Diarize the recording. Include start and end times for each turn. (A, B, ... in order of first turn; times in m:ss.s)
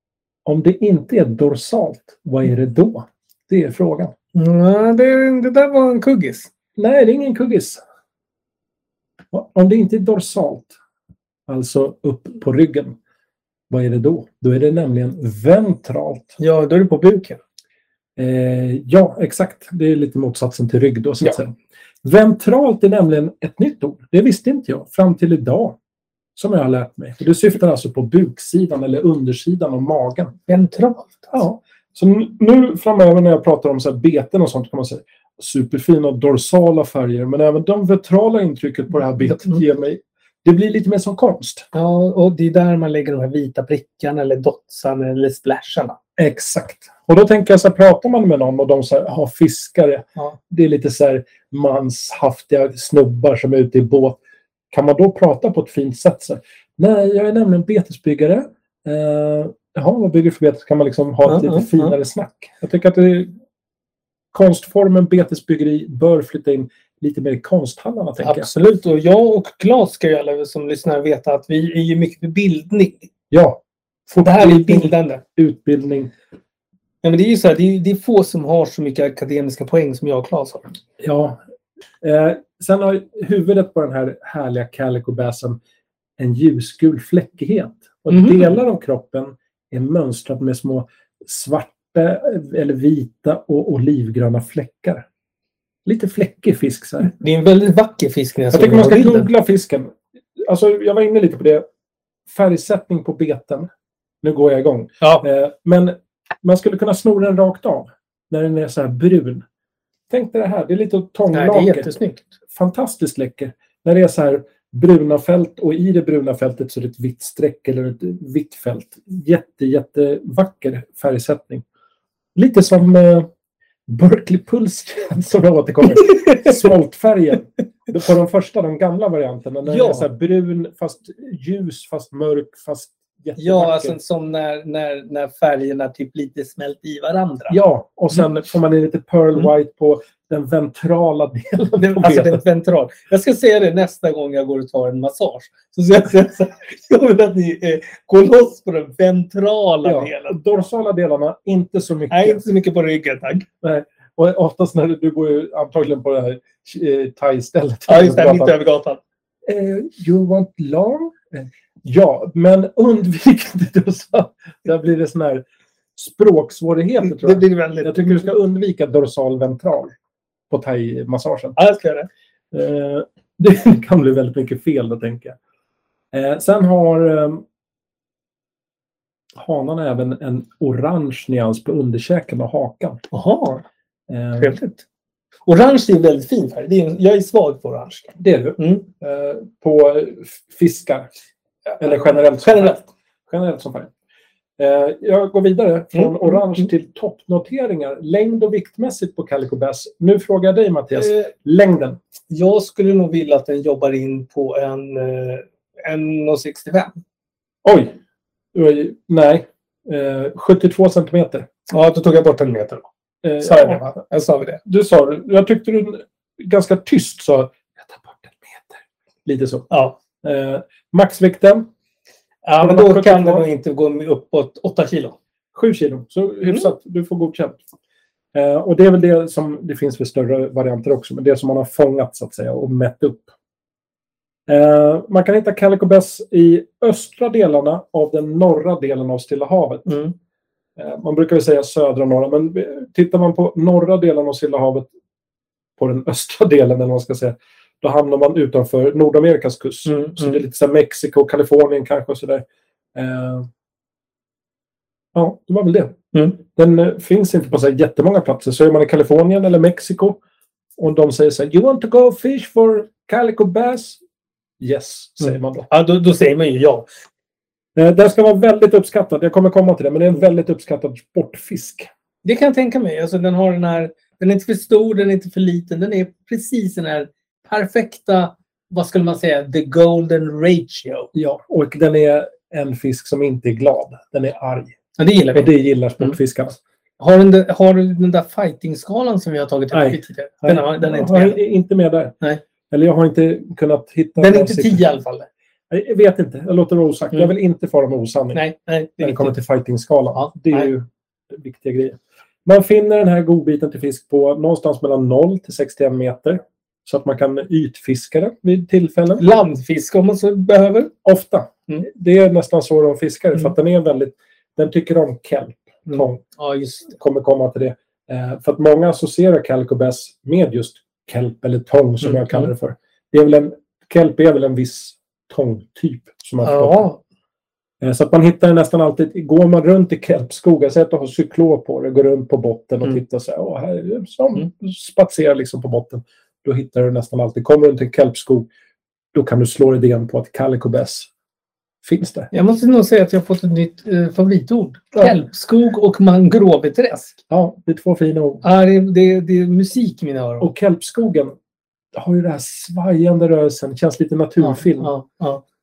0:00.4-0:04.1 A
0:04.3-0:06.5 B
0:06.8-0:07.8 A
0:09.3-0:10.7 A
0:11.5-0:13.0 A
0:13.7-0:16.4 A
0:16.4-0:17.4 B
0:18.2-0:25.8 A
0:26.4-0:30.3 A
0:30.5-0:31.4 B
0:31.3-0:41.7 A
0:41.7-0:46.0 B
0:46.2-0:54.2 A
0:54.7-1:03.3 A
1:01.2-1:02.0 B
1:04.3-1:08.5 A
1:08.2-1:13.0 B
1:13.3-1:16.1 A
1:14.2-1:15.2 B
1:17.0-1:20.7 B
1:21.0-1:21.4 A
1:22.0-1:25.6 A
1:26.2-1:35.0 A
1:28.1-1:28.5 B
1:35.8-1:37.1 A
1:37.1-1:39.3 B
1:38.5-1:41.6 A
1:42.3-1:43.7 A
1:44.2-1:49.4 A
1:50.1-1:51.9 A
1:51.3-1:52.2 B
1:52.5-2:01.6 A
2:02.3-2:03.3 A
2:03.9-2:14.0 A
2:06.1-2:06.4 B
2:09.6-2:10.1 B
2:13.4-2:17.6 B
2:17.5-2:22.4 A
2:21.8-2:30.4 B
2:29.8-2:32.4 A
2:32.1-2:33.4 B
2:33.6-2:38.6 A
2:37.9-2:39.0 B
2:39.4-2:45.4 A
2:46.0-2:49.9 A
2:47.0-2:48.2 B
2:50.5-2:51.6 A
2:51.6-2:52.1 B
2:52.5-2:55.4 A
2:56.1-2:57.4 A
2:59.4-3:03.0 A
3:03.1-3:03.6 B
3:04.1-3:04.6 A
3:04.4-3:04.8 B
3:05.5-3:08.9 B
3:08.2-3:11.1 A
3:11.7-3:12.8 B
3:11.8-3:13.9 A
3:14.6-3:22.0 A
3:15.9-3:16.6 B
3:21.0-3:21.3 B
3:22.3-3:26.9 B
3:27.6-3:28.0 A
3:28.5-3:31.5 A
3:31.7-3:32.8 B
3:33.2-3:33.9 A
3:33.4-3:34.6 B
3:34.6-3:39.7 A
3:39.7-3:40.0 B
3:40.2-3:41.7 A
3:42.4-3:45.2 B
3:42.6-3:43.4 A
3:45.5-3:47.6 A
3:48.3-3:53.3 A
3:54.5-3:59.9 A
3:59.9-4:00.1 B
4:00.8-4:04.9 A
4:05.8-4:13.5 A
4:09.8-4:10.4 B
4:15.1-4:20.2 A
4:16.1-4:16.4 B
4:20.8-4:24.0 A
4:24.6-4:25.7 A
4:25.2-4:26.9 B
4:27.8-4:31.9 A
4:32.2-4:41.1 B
4:41.1-4:44.8 A
4:45.0-4:46.2 B
4:45.3-4:46.6 A
4:47.0-4:51.4 B
4:49.7-4:52.1 A
4:52.7-4:54.8 A
4:54.2-4:55.3 B
4:55.7-4:58.4 A
4:58.3-4:59.3 B
4:59.0-5:09.2 A
5:00.2-5:00.7 B
5:09.2-5:10.9 B
5:11.0-5:16.2 A
5:15.9-5:16.9 B
5:16.9-5:26.8 A
5:22.0-5:22.5 B
5:26.4-5:27.0 B
5:27.8-5:38.5 A
5:39.1-5:41.1 A
5:41.8-5:42.3 A
5:42.3-5:47.2 B
5:47.3-5:48.4 A
5:48.4-5:50.5 B
5:50.4-5:51.3 A
5:51.9-5:54.9 A
5:54.4-5:55.4 B